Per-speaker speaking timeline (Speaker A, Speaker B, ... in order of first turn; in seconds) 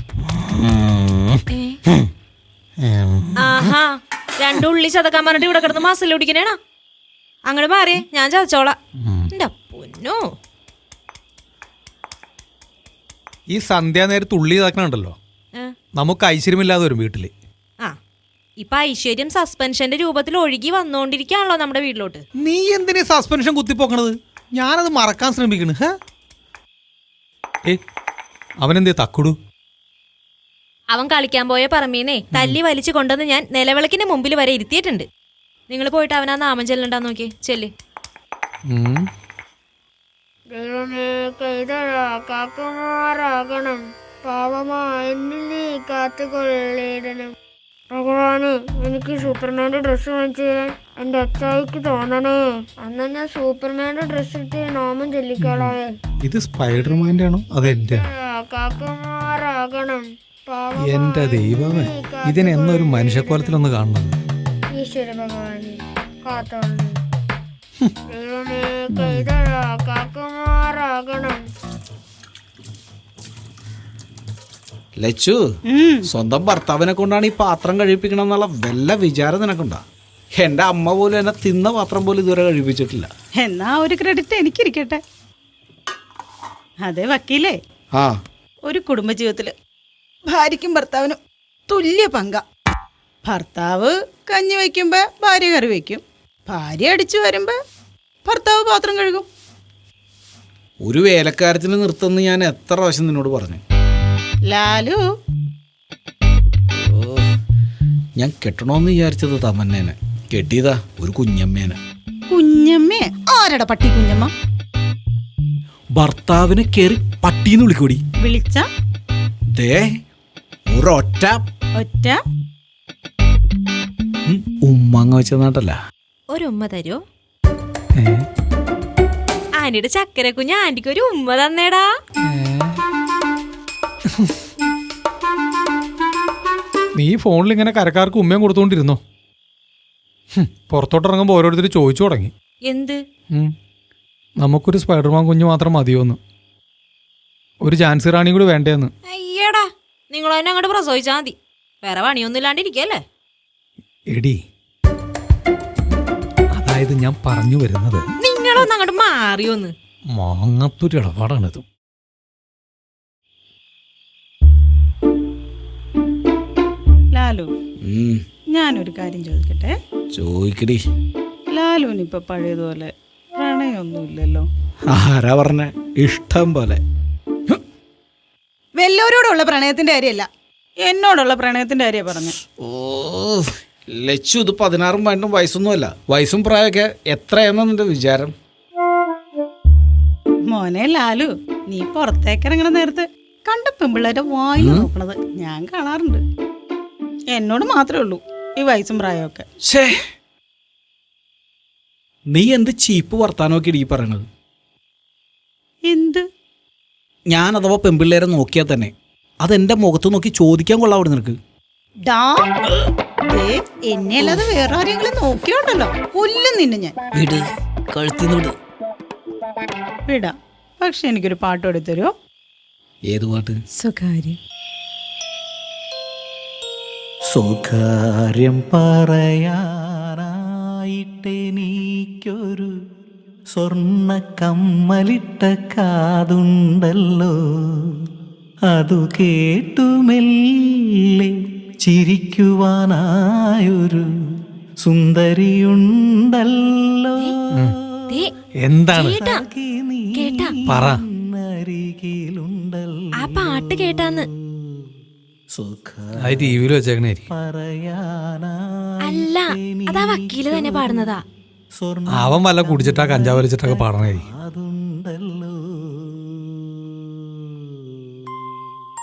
Speaker A: 1.5-1.8, 3.4-6.6, 7.5-8.8, 9.3-10.2, 18.6-22.2, 30.9-35.0, 35.7-37.7, 126.3-127.0, 129.6-131.9, 142.6-143.0, 149.1-153.0, 158.2-159.7, 248.9-249.4, 250.1-250.5, 253.2-254.2, 259.1-261.2
Speaker B: 13.5-15.1, 16.0-17.3, 22.4-25.8, 28.6-29.3, 38.7-39.0, 55.4-55.7, 56.2-58.0, 60.8-64.1, 132.2-132.8, 137.0-139.0, 140.4-142.3, 144.4-146.2, 147.6-148.9, 154.1-154.4, 156.6-158.0, 160.1-161.6, 248.6-249.1, 250.7-251.0, 256.2-257.3, 262.2-264.2
Speaker C: 40.5-47.3, 47.9-55.9, 57.7-63.6, 64.8-67.0, 68.1-71.4
Speaker D: 75.0-75.4, 76.0-79.8, 80.4-83.1, 100.8-103.6, 106.7-107.3, 108.2-111.8, 116.0-118.0, 119.5-119.9, 120.7-121.4, 124.2-125.8, 167.8-168.2, 170.1-170.8, 174.9-176.8, 182.6-188.3, 194.6-194.9, 199.6-200.0, 202.3-204.2, 207.3-208.9, 209.4-211.3, 214.2-214.5, 217.1-218.5, 223.1-223.6
Speaker E: 75.7-76.1, 83.4-85.0, 86.8-87.6, 88.7-89.5, 90.2-92.4, 93.2-97.6, 98.2-99.3, 104.5-105.0, 112.3-114.3, 118.2-118.7, 121.8-122.2, 167.1-167.5, 168.5-169.7, 171.5-174.5, 178.8-180.3, 180.8-182.3, 190.5-196.2, 197.3-199.4, 205.9-206.2, 212.1-212.6, 213.2-216.9, 220.1-222.1, 223.8-224.4
Speaker F: 227.3-232.7, 233.5-238.1, 238.7-244.1, 244.8-247.7, 249.1-254.9, 255.6-256.7, 257.3-261.1, 261.8-268.3